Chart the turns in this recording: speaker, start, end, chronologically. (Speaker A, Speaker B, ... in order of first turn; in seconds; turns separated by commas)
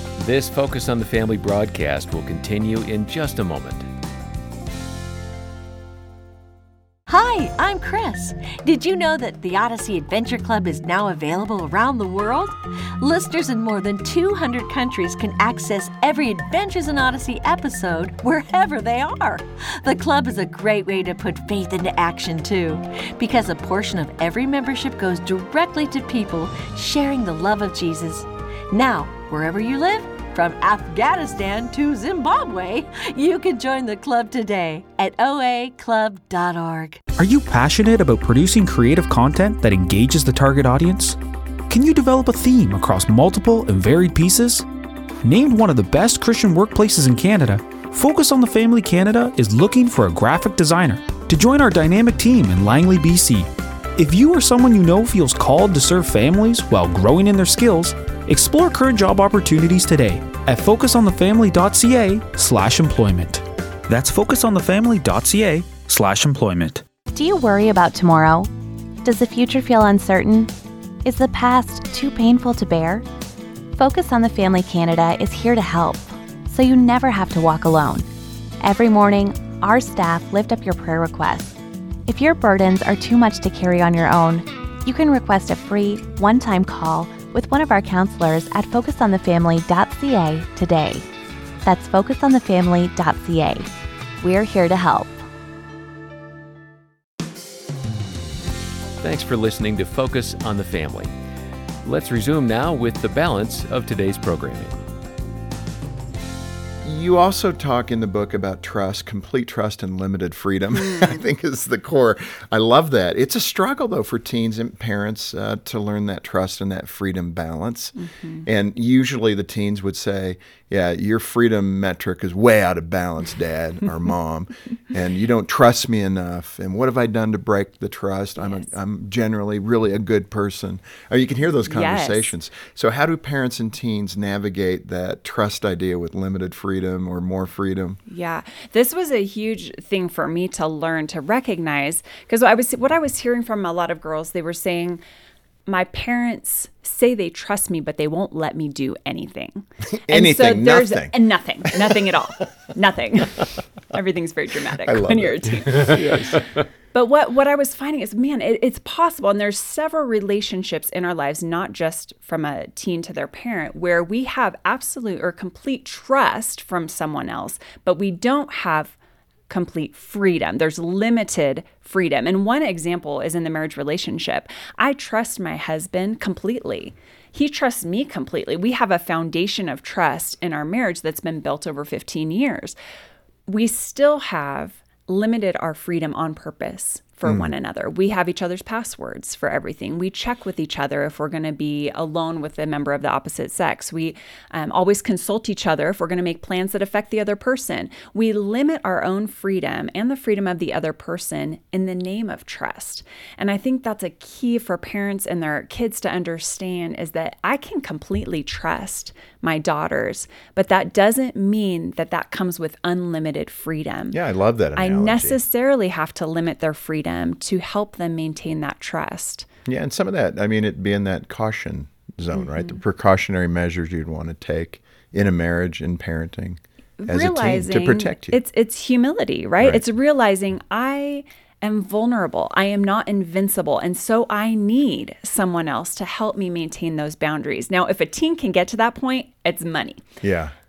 Speaker A: 0.2-3.9, Speaker B: 7.1-37.0, Speaker C: 37.2-41.2, Speaker C: 41.7-44.6, Speaker C: 45.2-66.8, Speaker D: 67.1-68.5, Speaker D: 69.0-70.5, Speaker D: 71.0-73.0, Speaker D: 73.8-78.0, Speaker D: 78.6-91.0, Speaker D: 91.6-93.7, Speaker D: 94.2-95.2, Speaker A: 99.0-101.1, Speaker A: 101.8-104.8, Speaker E: 106.8-138.0, Speaker F: 110.8-111.2, Speaker F: 118.0-118.5, Speaker F: 128.4-128.7, Speaker F: 131.7-132.3, Speaker F: 138.1-145.0, Speaker F: 145.7-156.4, Speaker E: 149.9-152.1, Speaker E: 154.8-156.4, Speaker F: 156.9-169.0, Speaker F: 169.5-182.8, Speaker F: 183.5-214.2, Speaker E: 187.2-187.5, Speaker E: 214.1-215.4, Speaker F: 214.8-219.5, Speaker E: 219.7-228.4, Speaker F: 222.4-222.8, Speaker F: 227.0-240.0, Speaker E: 240.2-240.5